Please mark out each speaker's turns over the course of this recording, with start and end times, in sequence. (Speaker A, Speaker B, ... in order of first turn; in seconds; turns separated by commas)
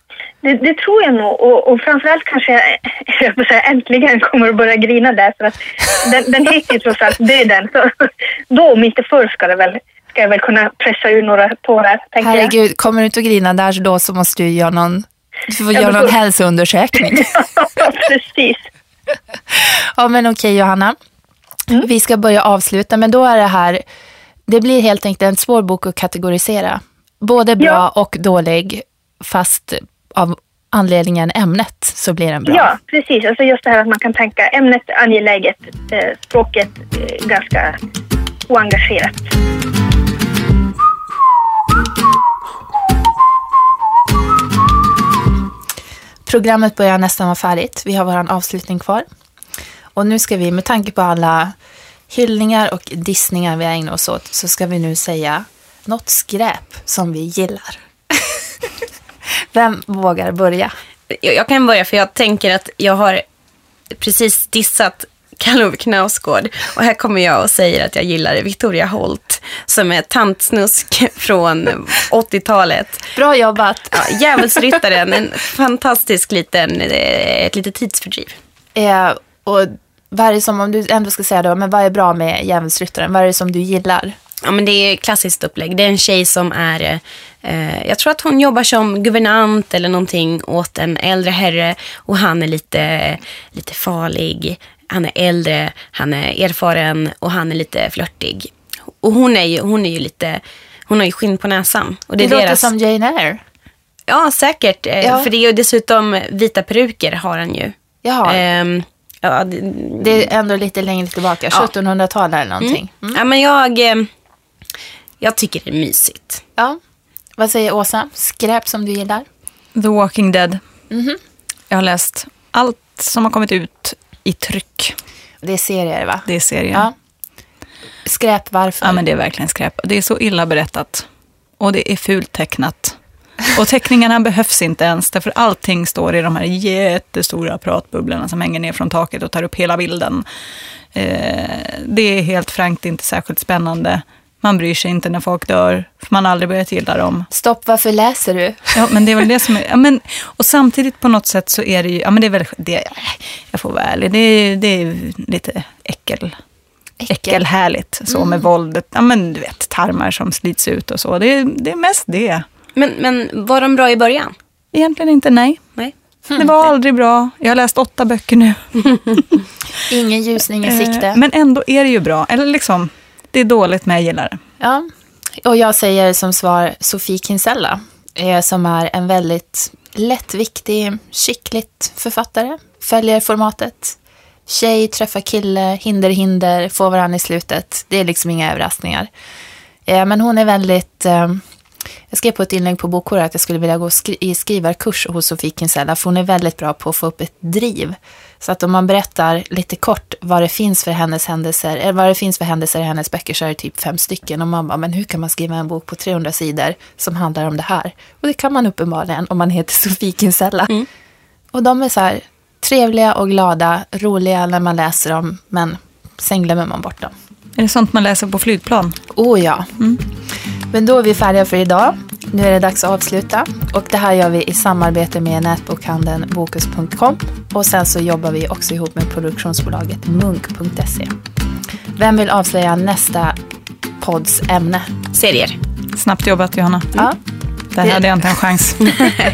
Speaker A: 0.4-12.5, Speaker B: 12.2-17.4, Speaker A: 15.8-16.1, Speaker A: 17.1-18.7, Speaker B: 19.5-20.9, Speaker B: 21.7-23.8, Speaker B: 24.5-32.7, Speaker A: 32.5-37.8, Speaker A: 38.5-39.3, Speaker B: 46.2-49.0, Speaker B: 50.0-51.5, Speaker B: 52.1-58.4, Speaker B: 59.5-60.7, Speaker C: 61.1-63.2, Speaker C: 63.9-73.1, Speaker B: 73.2-74.4, Speaker C: 73.9-78.3, Speaker B: 78.7-84.1, Speaker C: 84.4-98.5, Speaker C: 99.0-102.7, Speaker B: 102.2-103.4, Speaker C: 104.1-107.7, Speaker B: 105.0-105.3, Speaker B: 108.0-108.4, Speaker C: 108.2-110.3, Speaker B: 110.0-113.2, Speaker C: 112.6-114.1, Speaker C: 115.2-116.4, Speaker B: 117.4-119.2, Speaker D: 119.7-120.6, Speaker B: 120.9-121.2, Speaker D: 121.7-125.0, Speaker B: 125.4-126.9, Speaker D: 126.3-126.9, Speaker B: 128.0-129.0, Speaker D: 128.8-131.1, Speaker D: 131.6-140.2, Speaker D: 140.9-147.3, Speaker B: 147.3-148.8, Speaker D: 148.7-156.3, Speaker B: 157.0-157.4, Speaker D: 157.1-162.4, Speaker C: 162.7-164.3, Speaker D: 164.7-165.6, Speaker D: 166.3-168.6, Speaker B: 169.9-171.2, Speaker D: 170.7-174.4, Speaker B: 174.6-174.9, Speaker B: 175.4-183.9, Speaker B: 184.5-189.1, Speaker B: 189.8-191.4, Speaker B: 192.1-210.8, Speaker B: 211.5-217.1, Speaker D: 217.6-219.0, Speaker B: 219.1-219.7, Speaker B: 220.7-231.2, Speaker B: 232.0-233.4, Speaker B: 234.0-234.9, Speaker C: 235.1-235.6, Speaker D: 235.9-237.1, Speaker D: 237.7-239.0, Speaker B: 237.8-238.1